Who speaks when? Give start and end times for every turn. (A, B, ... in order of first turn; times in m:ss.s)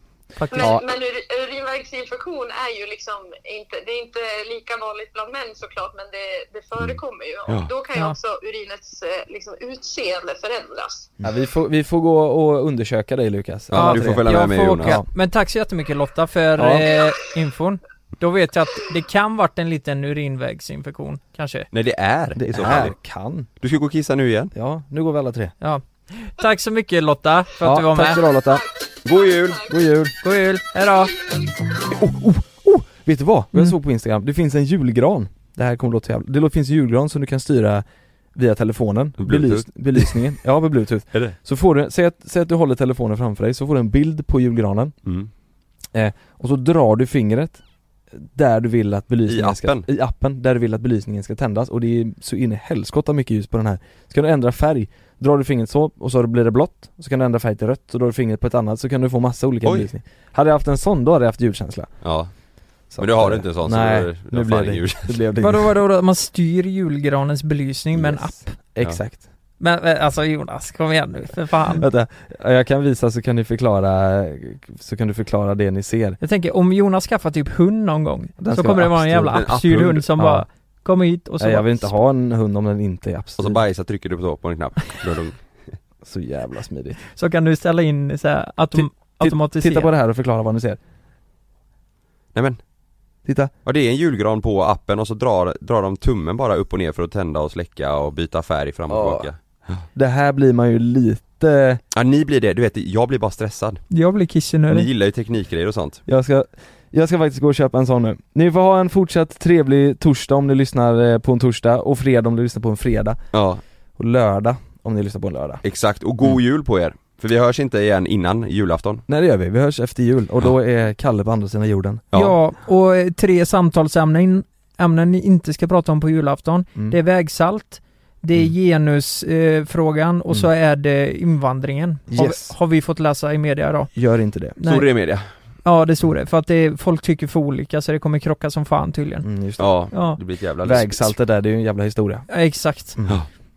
0:00.3-0:00.8 A
0:00.5-0:11.1 B
0:00.6-0:00.8 C
0:06.8-0:07.7 D
0:11.2-0:15.1 C
0:13.7-0:15.0 D
0:13.7-0:21.7 A
0:16.6-0:16.9 C
0:21.7-0:23.0 D
0:22.4-0:23.5 C
0:23.6-0:24.5 D
0:24.5-0:25.5 C
0:25.6-0:28.2 A
0:27.6-0:28.6 C
0:28.1-0:29.7 B
0:29.0-0:29.6 D
0:29.7-0:30.1 C
0:30.2-0:31.1 A
0:30.8-0:31.7 B
0:31.9-0:44.9 C
0:39.2-0:40.2 D
0:45.0-0:45.3 D
0:45.9-0:47.6 C
0:48.1-1:01.9 C
0:49.3-0:49.8 D
1:02.0-1:02.3 D
1:02.9-1:05.7 C
1:03.0-1:05.2 D
1:05.4-1:08.6 A
1:07.9-1:09.2 C
1:09.6-1:11.8 A
1:11.7-1:16.2 C
1:16.2-1:21.9 A
1:18.4-1:19.5 C
1:19.3-1:20.1 D
1:20.2-1:20.4 C
1:21.4-1:23.6 C
1:23.4-1:25.7 D
1:26.0-1:27.0 C
1:27.1-1:29.9 A
1:28.8-1:30.8 C
1:33.2-1:33.5 C
1:33.6-1:39.8 D
1:38.9-1:39.3 C
1:39.9-1:41.8 C
1:41.9-1:43.8 D
1:43.9-1:44.9 A
1:44.7-1:46.0 D
1:46.1-1:53.2 C
1:53.3-1:53.6 D
1:54.0-1:55.6 C
1:55.6-1:59.0 D
1:59.1-2:02.1 C
2:02.1-2:13.9 A
2:12.1-2:12.5 C
2:13.9-2:14.6 C
2:14.6-2:14.9 A
2:14.6-2:15.3 D
2:15.6-2:19.3 A
2:19.2-2:19.9 C
2:19.6-2:21.1 D
2:19.9-2:20.2 A
2:20.6-2:22.2 C
2:22.3-2:23.0 A